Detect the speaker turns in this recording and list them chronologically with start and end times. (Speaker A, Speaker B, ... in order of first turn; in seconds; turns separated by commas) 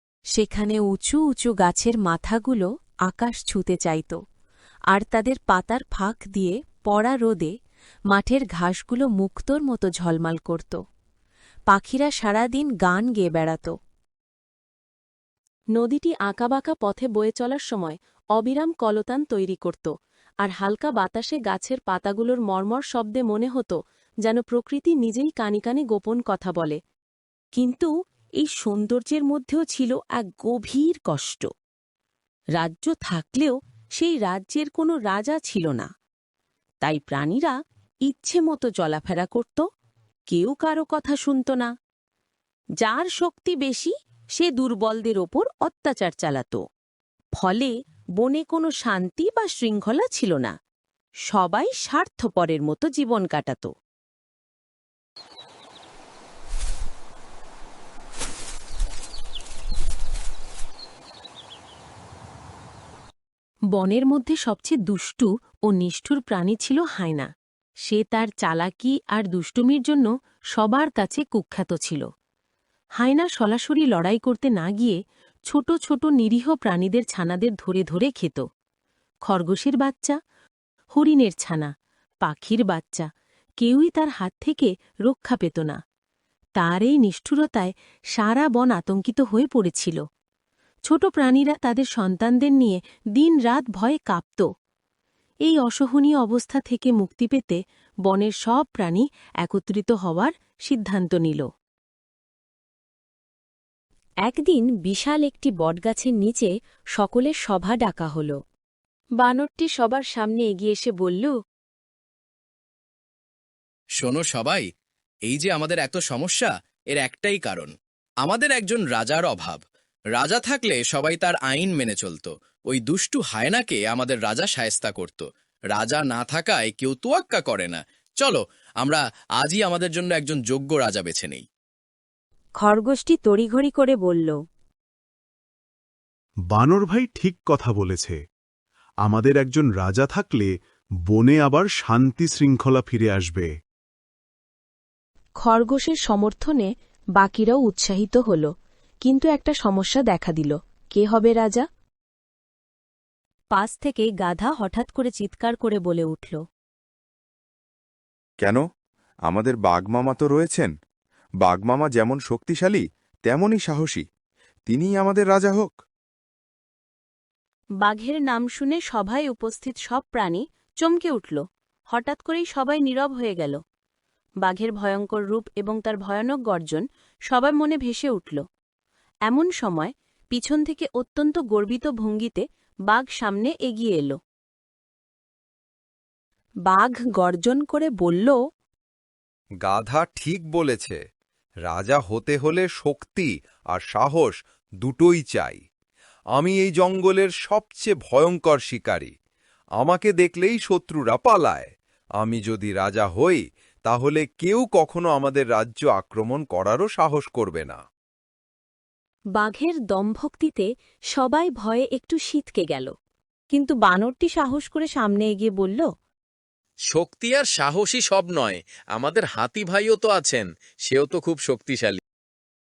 Speaker A: 0.3-4.2, Speaker A: 4.9-7.5, Speaker A: 8.1-10.8, Speaker A: 11.7-13.7, Speaker A: 15.8-19.9, Speaker A: 20.4-26.8, Speaker A: 27.6-31.5, Speaker A: 32.6-35.9, Speaker A: 36.8-37.5, Speaker A: 38.1-39.6, Speaker A: 40.3-41.7, Speaker A: 42.8-46.6, Speaker A: 47.4-50.5, Speaker A: 51.3-53.7, Speaker A: 63.8-67.3, Speaker A: 67.9-72.1, Speaker A: 73.0-75.0, Speaker A: 75.5-78.4, Speaker A: 79.3-80.2, Speaker A: 81.0-81.7, Speaker A: 82.2-83.1, Speaker A: 83.6-85.8, Speaker A: 86.6-90.0, Speaker A: 90.9-94.5, Speaker A: 95.5-101.5, Speaker A: 104.2-108.4, Speaker A: 109.2-111.3, Speaker B: 114.0-114.7, Speaker B: 115.3-117.7, Speaker B: 118.2-119.6, Speaker B: 120.2-131.4, Speaker A: 132.6-134.4, Speaker C: 136.5-138.2, Speaker C: 139.1-140.5, Speaker C: 141.1-143.4, Speaker A: 145.4-148.5, Speaker A: 149.0-151.7, Speaker A: 153.5-156.4, Speaker D: 159.3-160.7, Speaker D: 161.4-164.1, Speaker D: 164.7-165.8, Speaker A: 167.8-173.6, Speaker A: 174.4-178.4, Speaker A: 179.3-184.2, Speaker A: 186.7-188.4, Speaker E: 189.6-191.0, Speaker E: 191.7-195.6, Speaker E: 196.4-199.1, Speaker E: 199.8-207.8, Speaker A: 209.3-212.9, Speaker A: 213.5-215.8, Speaker B: 216.9-222.0